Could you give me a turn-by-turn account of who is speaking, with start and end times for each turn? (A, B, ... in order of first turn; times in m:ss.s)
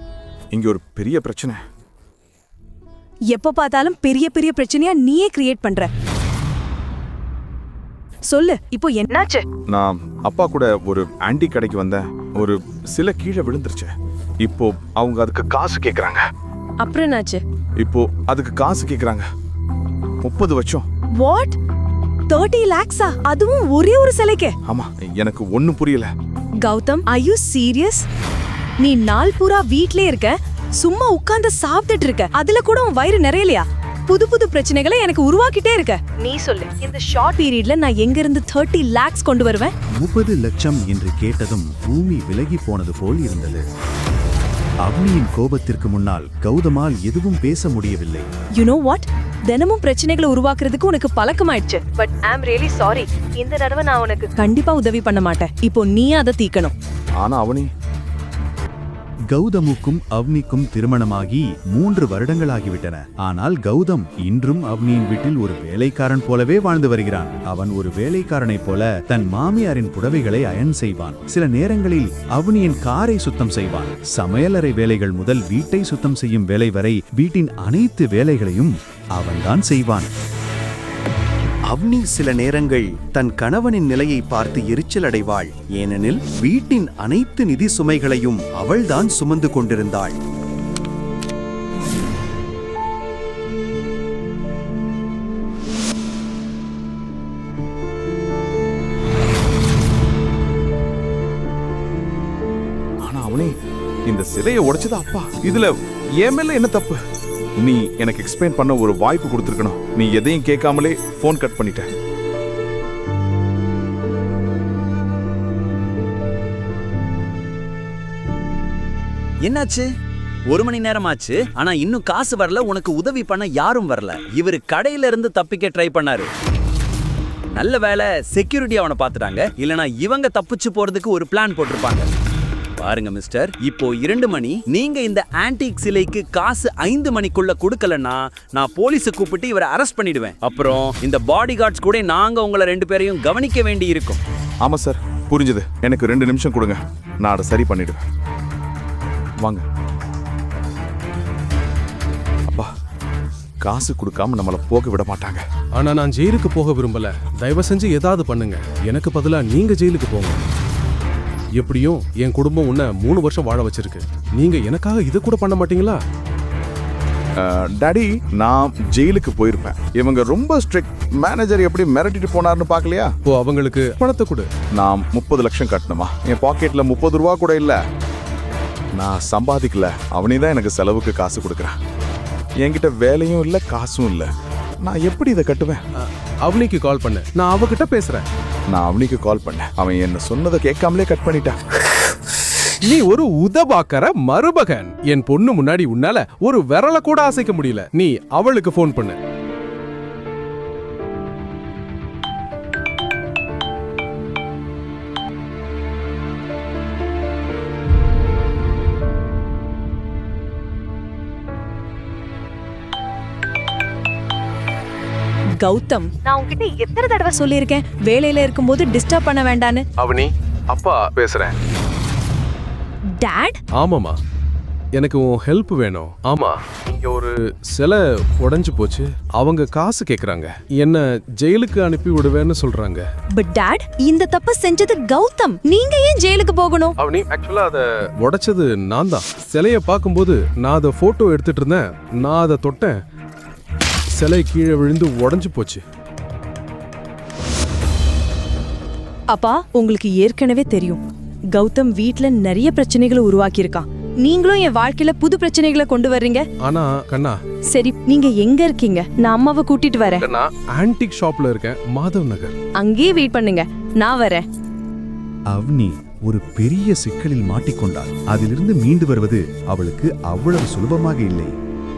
0:00.5-0:01.6 A
0:03.3-0:05.9 B
0:08.3-0:09.4 B
0:09.7-0:13.9 A
0:14.4-0:16.2 A
0:16.8-0:17.4 B
0:17.8-0:19.3 A
0:20.2-0:20.8 A
0:21.2-0:21.5 B
0:22.3-0:24.5 B
0:24.6-0:26.1 A
0:26.6-0:28.0 B
0:28.8-0:39.7 B
0:40.0-0:43.6 C
0:44.8-0:48.3 C
0:48.6-0:56.7 B
0:57.2-0:57.7 A
0:59.3-1:20.1 C
1:21.7-1:30.2 C
1:43.0-1:43.5 A
1:44.1-1:47.0 A
1:47.6-1:51.8 A
1:59.4-1:59.9 D
2:00.5-2:06.3 D
2:07.5-2:12.0 D
2:12.8-2:24.2 D
2:24.6-2:28.0 A
2:33.6-2:35.4 A
2:35.8-2:40.4 E
2:41.6-2:46.0 E
2:47.4-2:53.1 A
2:53.3-2:54.5 E
2:54.8-2:57.8 A
2:59.0-3:01.8 A
3:02.6-3:04.3 A
3:04.8-3:05.8 A
3:06.4-3:08.2 E
3:08.7-3:11.6 A
3:12.8-3:19.2 E
3:35.6-3:39.8 B
3:40.0-3:41.5 E
3:43.2-3:43.6 B
3:43.8-3:44.2 E
3:45.0-3:53.0 E
3:53.4-3:56.9 B
3:57.0-4:03.0 E
4:04.1-4:05.8 E
4:09.3-4:11.0 B
4:11.5-4:16.4 B
4:16.6-4:17.4 E
4:17.7-4:20.2 B
4:20.2-4:22.6 E
4:22.8-4:24.4 B
4:25.5-4:31.5 C